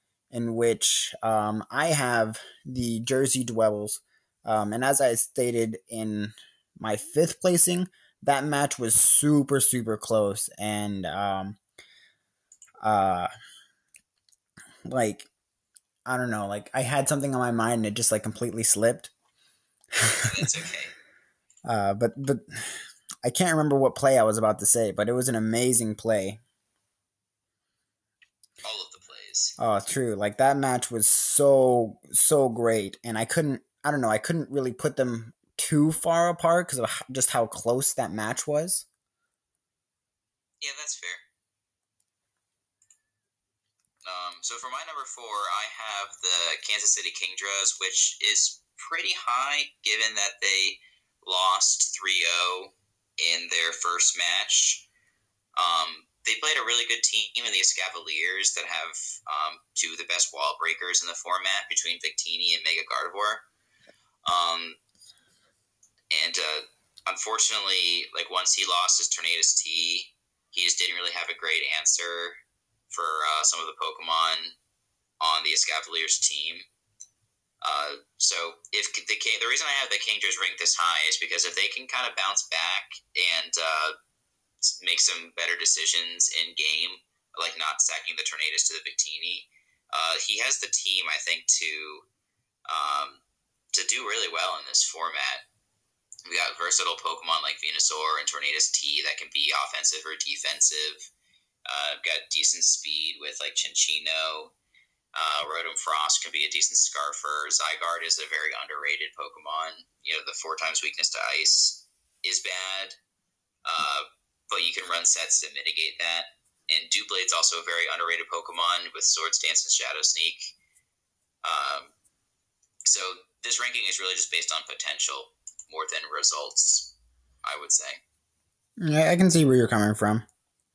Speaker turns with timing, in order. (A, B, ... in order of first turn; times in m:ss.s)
0:00.3-0:11.6 A
0:12.8-0:13.3 A
0:14.8-0:15.3 A
0:16.0-0:19.1 A
0:20.1-0:20.4 A
0:20.2-0:20.9 B
0:21.6-0:22.6 A
0:23.2-0:26.4 A
0:28.6-0:29.5 B
0:29.6-0:38.8 A
0:40.6-0:41.2 B
0:44.0-0:54.8 B
0:55.6-1:03.4 B
1:04.2-1:04.8 B
1:06.1-1:14.6 B
1:15.2-1:16.6 B
1:17.6-1:23.9 B
1:24.6-1:32.1 B
1:32.7-1:33.2 B
1:33.7-1:35.4 B
1:36.2-1:41.1 B
1:41.7-1:44.5 B
1:45.1-1:53.0 B
1:53.6-2:00.5 B
2:01.4-2:01.9 B
2:02.8-2:06.9 B
2:07.4-2:08.0 B
2:08.8-2:10.2 A